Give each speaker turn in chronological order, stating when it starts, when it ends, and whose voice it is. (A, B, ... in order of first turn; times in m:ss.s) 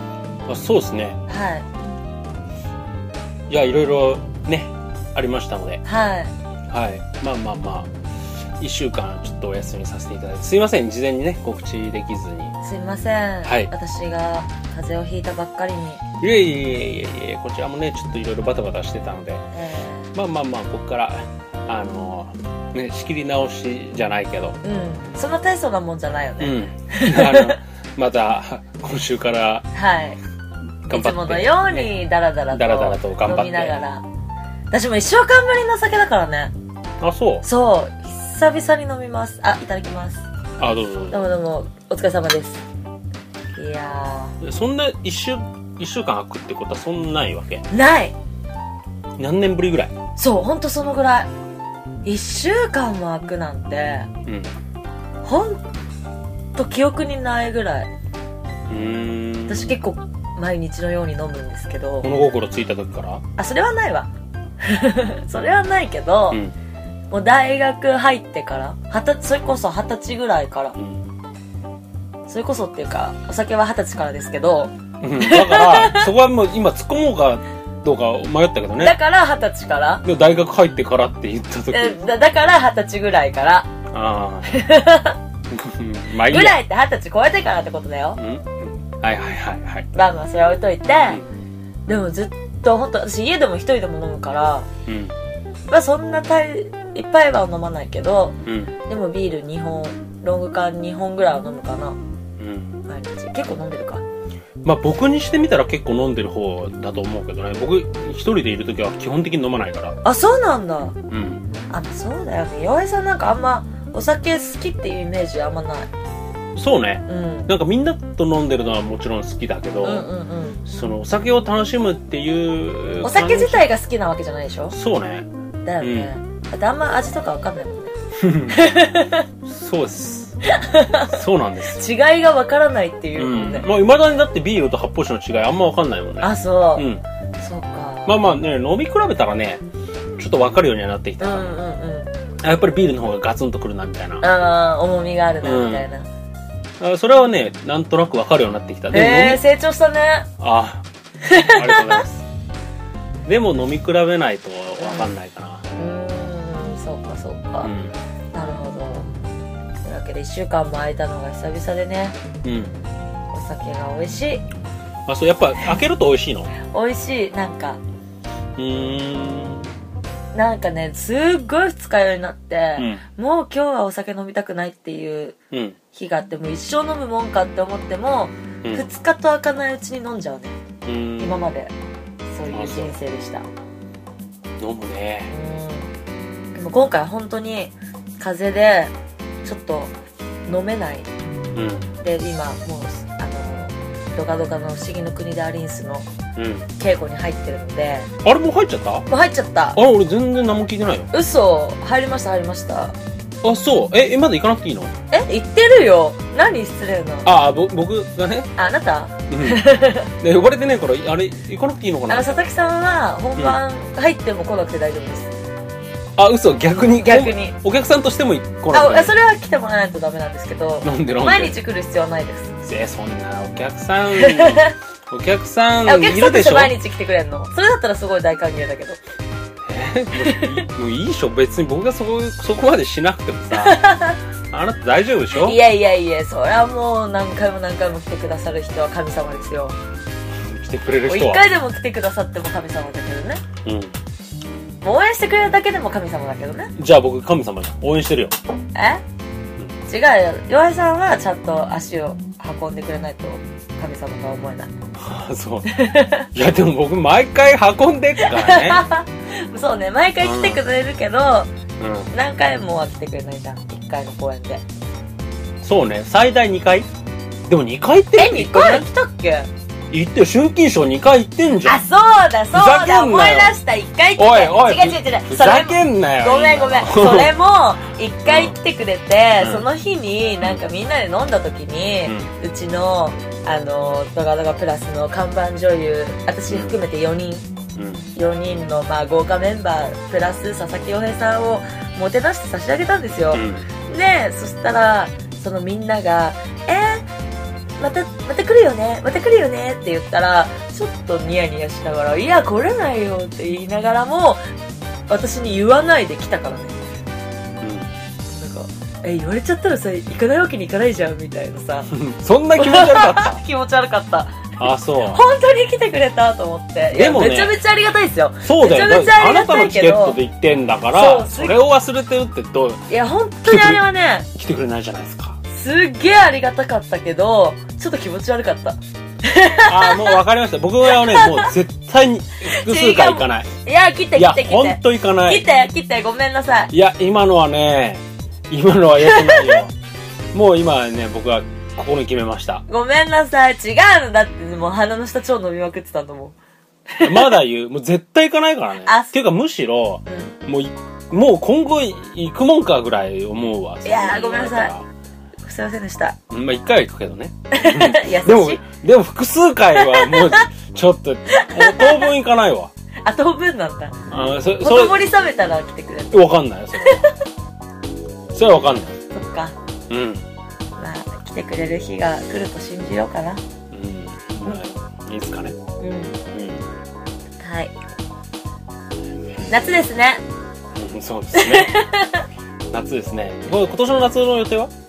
0:00.5-0:01.2 A
0:01.3-0:01.7 B
0:03.5-0:05.8 A
0:05.8-0:06.4 B
0:06.7-0:07.9 A
0:08.6-0:12.6 A
0:12.6-0:16.0 B
0:13.4-0:13.7 A
0:16.2-0:19.4 A
0:19.5-0:20.1 B
0:20.1-0:24.6 A
0:24.6-0:27.6 B
0:26.4-0:29.7 A
0:29.7-0:30.2 B
0:30.9-0:34.0 B
0:30.9-0:31.9 A
0:32.5-0:33.8 A
0:34.7-0:36.5 B
0:37.0-0:37.4 A
0:37.4-0:40.3 B
0:40.6-0:41.3 A
0:41.1-0:42.6 B
0:43.5-0:44.4 B
0:44.4-0:47.6 A
0:47.7-0:48.2 B
0:49.2-0:49.9 A
0:50.2-0:51.3 B
0:52.0-0:54.1 B
0:54.3-0:54.5 A
0:55.2-0:55.6 B
0:56.6-0:57.9 B
0:58.7-0:59.8 A
0:59.5-1:02.1 B
1:02.0-1:03.2 A
1:03.4-1:06.4 B
1:07.1-1:10.8 B
1:10.8-1:11.0 A
1:12.3-1:16.1 B
1:15.0-1:19.0 A
1:18.8-1:20.0 B
1:20.0-1:22.0 A
1:21.7-1:23.7 B
1:23.9-1:24.6 A
1:24.5-1:25.2 B
1:25.5-1:26.6 A
1:26.2-1:28.2 B
1:28.2-1:29.9 A
1:29.9-1:31.2 B
1:31.9-1:34.7 B
1:34.9-1:35.1 A
1:35.7-1:42.0 B
1:38.5-1:38.7 A
1:42.4-1:42.8 A
1:42.9-1:44.0 B
1:44.6-1:50.0 A
1:50.0-1:51.0 B
1:51.1-1:51.4 A
1:51.7-1:55.9 B
1:56.6-2:00.1 A
1:57.1-1:57.5 B
1:59.8-2:00.6 B
2:00.6-2:03.7 A
2:03.0-2:04.8 B
2:04.7-2:05.3 A
2:05.6-2:07.9 B
2:05.8-2:06.1 A
2:08.2-2:08.6 A
2:08.5-2:09.3 B
2:09.4-2:10.4 A
2:10.4-2:13.7 B
2:11.1-2:11.8 A
2:13.2-2:17.0 A
2:16.2-2:16.9 B
2:17.4-2:18.2 B
2:18.1-2:19.6 A
2:20.2-2:21.5 A
2:21.2-2:22.1 B
2:22.4-2:24.2 A
2:24.2-2:26.1 B
2:25.4-2:25.9 A
2:26.8-2:29.4 A
2:28.9-2:30.3 B
2:30.4-2:32.3 A
2:31.2-2:32.0 B
2:33.3-2:35.6 A
2:34.8-2:35.1 B
2:35.8-2:37.7 B
2:37.6-2:37.9 A
2:38.3-2:39.1 B
2:39.8-2:42.2 B
2:42.4-2:42.7 A
2:43.3-2:44.4 B
2:45.1-2:46.5 A
2:46.6-2:47.8 B
2:48.6-2:49.7 A
2:50.3-2:55.4 B
2:52.8-2:53.0 A
2:55.5-2:55.8 A
2:55.9-3:00.6 B
3:00.8-3:01.4 A
3:01.2-3:01.7 B
3:02.3-3:03.5 B
3:02.5-3:03.0 A
3:04.6-3:05.3 A
3:05.3-3:05.9 B
3:06.6-3:08.9 B
3:09.4-3:09.9 B
3:10.5-3:11.1 B
3:11.5-3:11.9 A
3:12.0-3:16.1 B
3:16.4-3:16.7 A
3:16.8-3:18.1 B
3:18.2-3:19.1 A
3:19.1-3:19.8 B
3:19.8-3:21.1 A
3:21.1-3:23.0 B
3:23.4-3:24.9 A
3:25.1-3:27.3 B
3:27.2-3:28.5 A
3:28.6-3:30.1 B
3:29.3-3:32.5 A
3:32.1-3:35.3 B
3:36.2-3:39.1 A
3:36.9-3:37.6 B
3:38.7-3:42.6 B
3:40.8-3:41.6 A
3:42.6-3:46.8 A
3:44.1-3:44.7 B
3:45.8-3:49.0 B
3:49.7-3:53.8 A
3:50.2-3:50.6 B
3:53.5-3:54.2 B
3:54.5-3:55.6 A
3:55.3-3:59.8 B
4:00.4-4:01.5 A
4:01.1-4:03.4 B
4:03.6-4:04.0 A
4:04.8-4:06.7 B
4:06.8-4:08.4 A
4:08.7-4:09.0 B
4:09.9-4:14.7 B
4:15.0-4:15.8 A
4:15.7-4:16.3 B
4:16.3-4:18.8 A
4:18.2-4:21.5 B
4:20.2-4:20.6 A
4:21.8-4:22.1 A
4:22.1-4:24.6 B
4:25.6-4:26.9 A
4:27.5-4:28.9 A
4:28.2-4:29.5 B
4:29.9-4:31.8 A
4:31.6-4:47.5 B
4:32.5-4:33.6 A
4:34.2-4:37.4 A
4:38.3-4:38.6 A
4:39.4-4:39.6 A
4:42.0-4:42.3 A
4:46.5-4:46.8 A
4:47.8-4:48.0 A
4:48.2-4:57.1 B
4:53.3-4:53.7 A
4:57.8-5:04.4 B
5:05.1-5:06.8 B
5:07.6-5:07.9 A
5:08.3-5:11.9 B
5:11.9-5:13.4 A
5:12.6-5:14.4 B
5:14.6-5:15.2 A
5:15.0-5:20.2 B
5:16.9-5:17.6 A
5:18.4-5:22.8 A
5:20.9-5:21.6 B
5:22.9-5:24.3 B
5:23.5-5:23.8 A
5:24.4-5:25.4 A
5:25.5-5:30.2 B
5:29.6-5:33.5 A
5:30.9-5:31.5 B
5:32.5-5:36.7 B
5:34.2-5:35.5 A
5:36.7-5:39.7 A
5:39.0-5:39.6 B
5:40.3-5:42.6 A
5:42.7-5:46.4 B
5:46.9-5:47.4 B
5:47.0-5:54.9 A
5:48.8-5:49.1 B
5:50.1-5:50.4 B
5:53.8-5:54.7 B
5:55.4-5:56.2 B
5:56.3-6:02.7 A
5:57.5-5:58.6 B
5:59.8-6:00.4 B
6:01.3-6:02.1 B
6:03.0-6:04.0 B
6:04.1-6:05.0 A
6:04.6-6:06.3 B
6:06.1-6:07.0 A
6:06.8-6:07.2 B
6:08.3-6:09.0 A
6:09.1-6:09.6 B
6:09.9-6:10.3 A
6:10.8-6:13.4 B
6:13.7-6:15.6 A
6:15.8-6:16.2 B
6:16.3-6:16.7 A
6:17.4-6:17.7 B
6:19.5-6:20.2 B
6:20.8-6:21.8 A
6:21.3-6:22.2 B
6:22.7-6:24.7 A